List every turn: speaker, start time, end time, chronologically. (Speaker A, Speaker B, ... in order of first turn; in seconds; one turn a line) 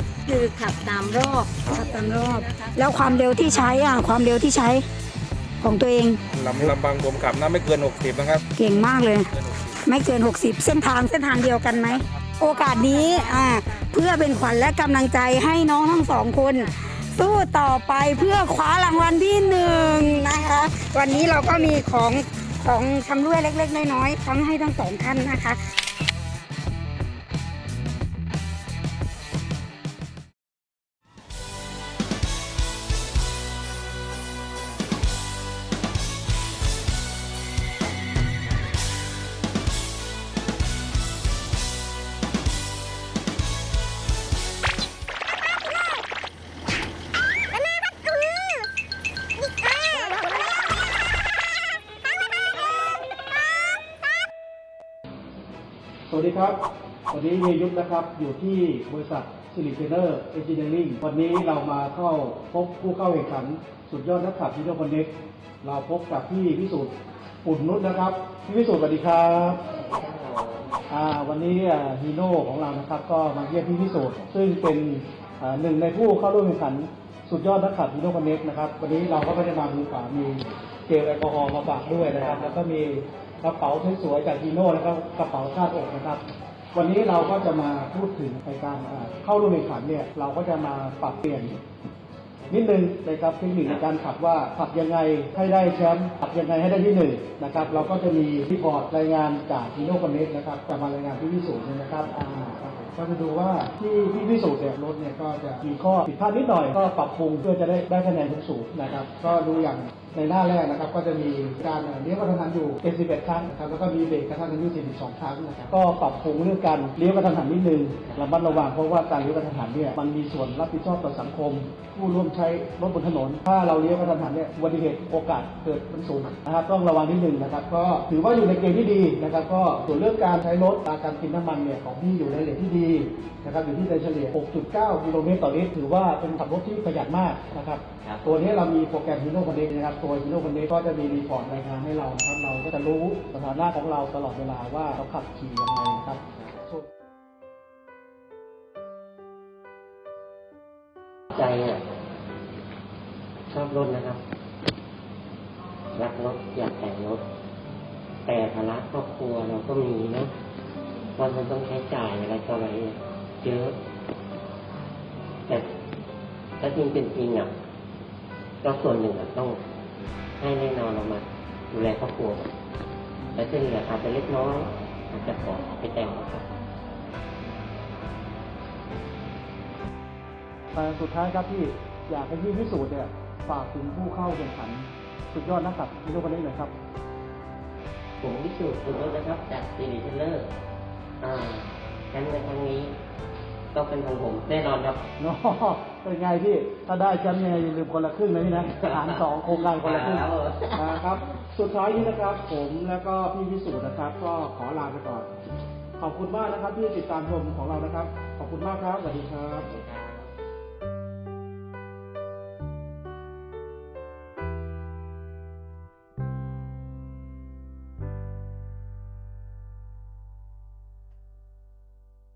Speaker A: 0.3-3.3
Speaker B: 1.6-4.8
Speaker B: 5.6-6.2
Speaker C: 6.3-8.4
Speaker B: 8.6-9.3
Speaker C: 9.3-9.8
Speaker B: 9.8-25.6
Speaker D: 56.1-66.9
Speaker D: 67.4-69.6
Speaker E: 69.7-70.7
Speaker D: 70.9-91.6
Speaker E: 82.1-82.6
Speaker D: 92.5-146.8
Speaker E: 118.0-118.4
Speaker E: 151.3-151.8
Speaker E: 153.5-154.2
Speaker E: 155.9-157.2
Speaker E: 158.3-160.3
Speaker E: 161.2-163.8
Speaker E: 166.6-167.5
Speaker E: 168.6-169.6
Speaker E: 170.4-172.5
Speaker E: 173.3-176.4
Speaker D: 180.8-186.7
Speaker E: 188.2-190.5
Speaker E: 191.2-192.9
Speaker E: 193.7-195.1
Speaker D: 195.2-200.2
Speaker E: 198.8-201.0
Speaker D: 200.7-205.3
Speaker D: 206.0-209.7
Speaker E: 209.6-210.3